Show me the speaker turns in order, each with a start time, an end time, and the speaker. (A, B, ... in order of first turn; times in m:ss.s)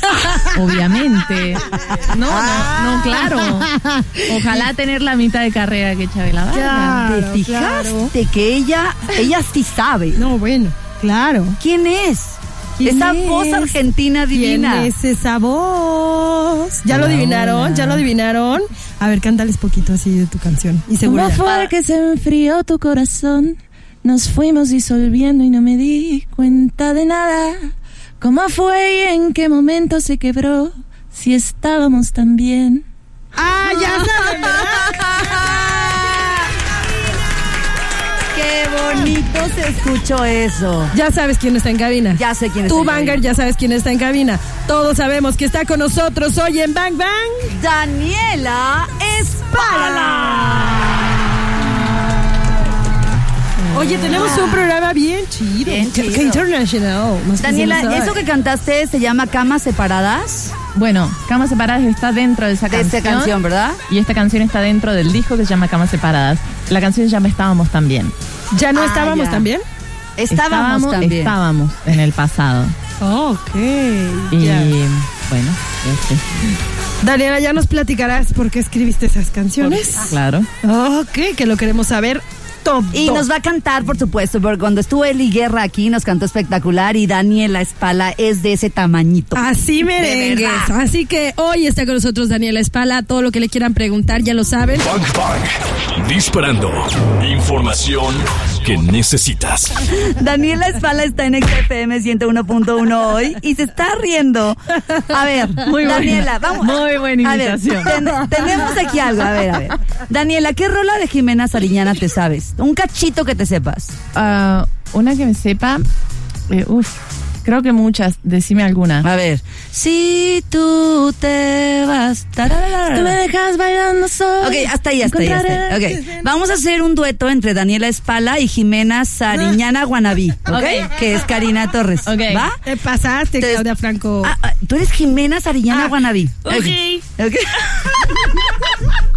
0:00.5-0:03.7 A
0:02.3-0:02.7 B
0:02.7-0:04.6 C
0:04.3-0:07.0 A
0:06.5-0:08.1 C
0:07.0-0:10.2 B
0:10.2-0:11.6 C
0:11.6-0:14.9 B
0:12.8-0:13.8 C
0:14.3-0:21.4 C
0:16.9-0:18.1 A
0:21.1-0:32.8 A
0:21.4-0:21.7 B
0:33.4-0:35.7 C
0:33.6-0:36.4 B
0:38.3-0:40.9 B
0:40.9-0:47.5 C
0:42.1-0:43.2 B
0:47.5-0:51.1 B
0:49.5-0:50.8 C
0:53.6-0:54.3 A
0:53.7-0:58.2 C
0:54.1-0:54.7 B
0:55.6-0:56.4 B
0:57.4-1:00.6 B
1:00.7-1:03.4 A
1:02.7-1:03.8 B
1:03.9-1:08.1 A
1:08.5-1:09.6 C
1:08.8-1:09.5 B
1:10.2-1:11.3 B
1:10.3-1:12.8 A
1:13.0-1:14.8 C
1:14.3-1:16.3 A
1:17.0-1:20.1 C
1:19.6-1:20.5 A
1:20.6-1:23.3 C
1:22.9-1:29.4 B
1:29.4-1:34.9 C
1:30.0-1:30.7 B
1:34.9-1:39.8 D
1:39.9-1:54.0 B
1:45.6-1:48.1 A
1:54.1-1:55.8 A
1:56.5-1:59.1 A
1:59.0-2:03.2 B
2:02.7-2:05.9 A
2:04.4-2:12.6 B
2:05.9-2:06.2 C
2:10.5-2:11.0 A
2:12.0-2:12.5 A
2:12.6-2:14.3 C
2:14.2-2:18.7 B
2:15.7-2:16.8 C